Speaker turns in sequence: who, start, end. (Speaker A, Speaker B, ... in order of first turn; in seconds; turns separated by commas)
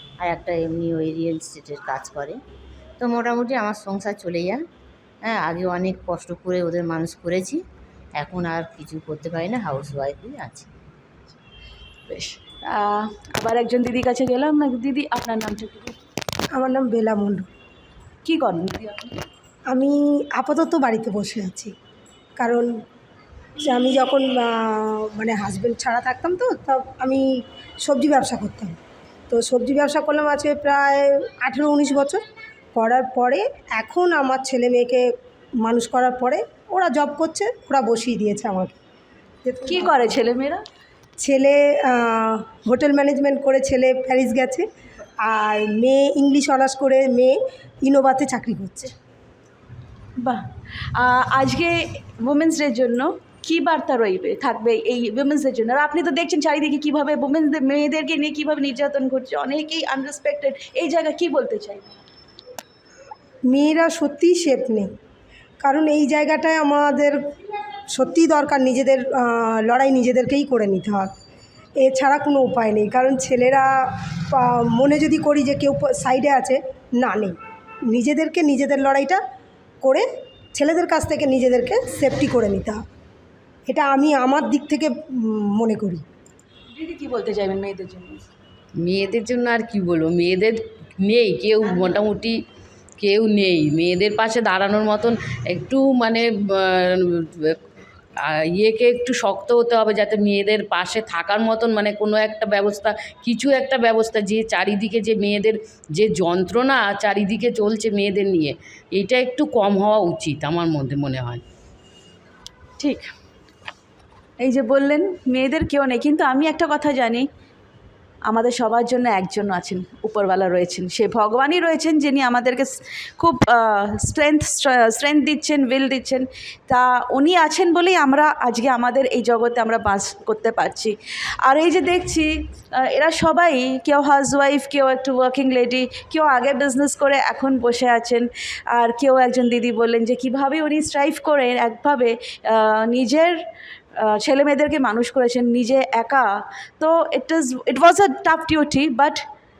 Speaker A: 0.2-2.4, Speaker A: 3.0-4.6, Speaker A: 5.2-7.6, Speaker A: 8.2-10.7, Speaker B: 12.1-16.0, Speaker C: 16.6-17.5, Speaker B: 18.2-19.2, Speaker C: 19.7-21.7, Speaker C: 22.4-22.7, Speaker C: 23.6-28.8, Speaker C: 29.3-32.2, Speaker C: 32.8-38.8, Speaker C: 39.4-40.1, Speaker B: 39.7-40.6, Speaker C: 41.2-44.7, Speaker C: 45.2-48.9, Speaker B: 50.9-62.0, Speaker C: 63.5-64.9, Speaker C: 65.6-67.2, Speaker C: 67.9-71.1, Speaker C: 71.8-77.4, Speaker C: 77.9-79.2, Speaker C: 79.8-82.8, Speaker C: 83.7-86.0, Speaker B: 86.7-88.2, Speaker D: 88.8-92.3, Speaker D: 93.0-97.6, Speaker D: 98.6-111.4, Speaker B: 112.8-113.1, Speaker B: 114.4-117.2, Speaker B: 118.3-143.4, Speaker B: 144.0-149.2